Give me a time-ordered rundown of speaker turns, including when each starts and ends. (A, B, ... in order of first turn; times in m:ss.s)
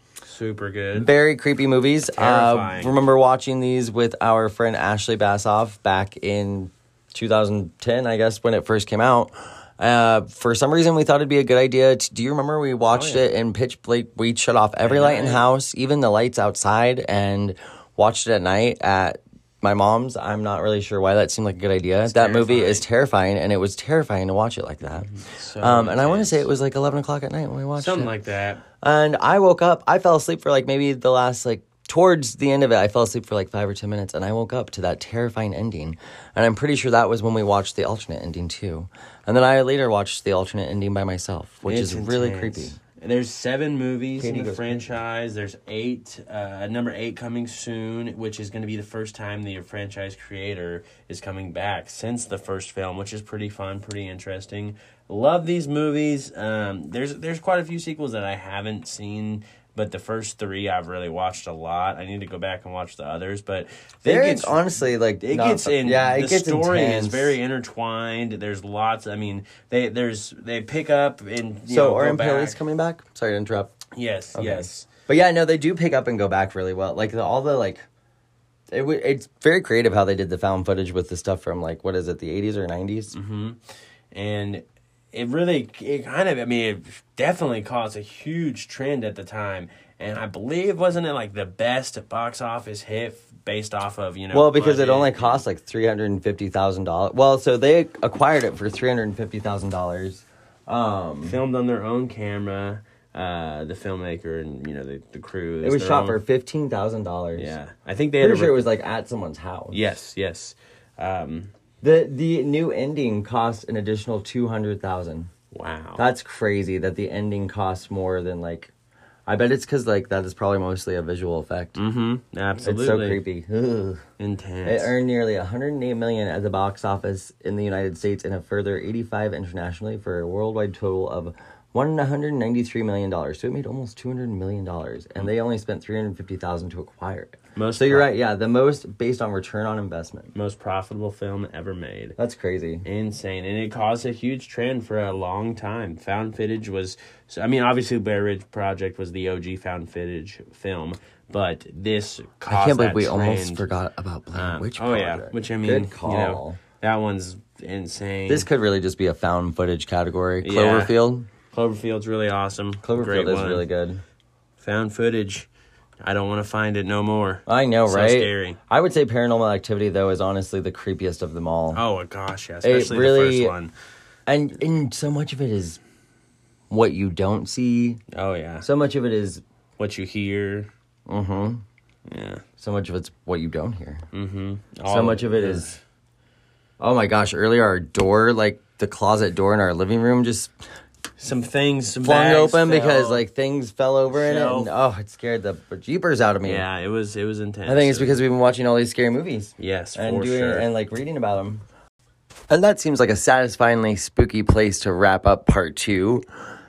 0:00.2-0:01.1 A
0:00.9-0:28.1 B
0:02.1-0:03.0 A
0:12.9-0:13.3 A
0:14.8-0:15.5 A
0:22.0-0:22.9 A
0:25.1-0:26.5 A
0:27.8-0:28.6 A
0:28.8-0:42.8 B
0:41.6-1:12.6 A
0:44.2-0:45.0 B
1:04.1-1:07.4 B
1:11.7-1:13.7 B
1:13.9-1:14.9 A
1:14.4-1:17.8 B
1:18.7-1:23.2 B
1:23.1-1:23.6 A
1:24.1-1:35.4 A
1:34.3-1:41.4 B
1:41.2-1:46.2 A
1:45.6-1:47.6 B
1:47.3-1:48.7 A
1:48.2-1:49.8 B
1:49.7-1:51.5 A
1:51.8-1:55.3 B
1:55.5-1:56.0 A
1:56.0-1:58.7 B
1:59.3-2:01.8 B
2:01.8-2:03.2 A
2:02.6-2:04.0 B
2:04.2-2:05.0 A
2:04.6-2:20.3 B
2:17.6-2:18.1 A
2:20.3-2:22.2 A
2:22.2-2:22.9 B
2:22.8-2:33.7 A
2:32.5-2:36.6 B
2:34.3-2:38.5 A
2:38.3-2:41.3 B
2:40.4-2:40.9 A
2:41.5-2:43.7 A
2:42.8-2:44.0 B
2:44.6-2:45.5 A
2:46.0-2:48.6 A
2:47.5-2:51.8 B
2:51.7-2:53.7 A
2:52.6-2:53.5 B
2:54.3-2:55.8 B
2:56.7-2:58.0 B
2:58.1-2:58.7 A
2:58.6-2:59.4 B
2:59.8-3:00.7 A
3:01.1-3:01.6 B
3:02.1-3:02.4 A
3:02.6-3:04.0 B
3:04.1-3:05.8 A
3:04.9-3:05.8 B
3:06.8-3:10.5 B
3:11.2-3:13.3 A
3:12.0-3:16.7 B
3:14.1-3:14.7 A
3:16.4-3:18.2 A
3:17.7-3:21.6 B
3:19.6-3:20.7 A
3:22.5-3:26.3 B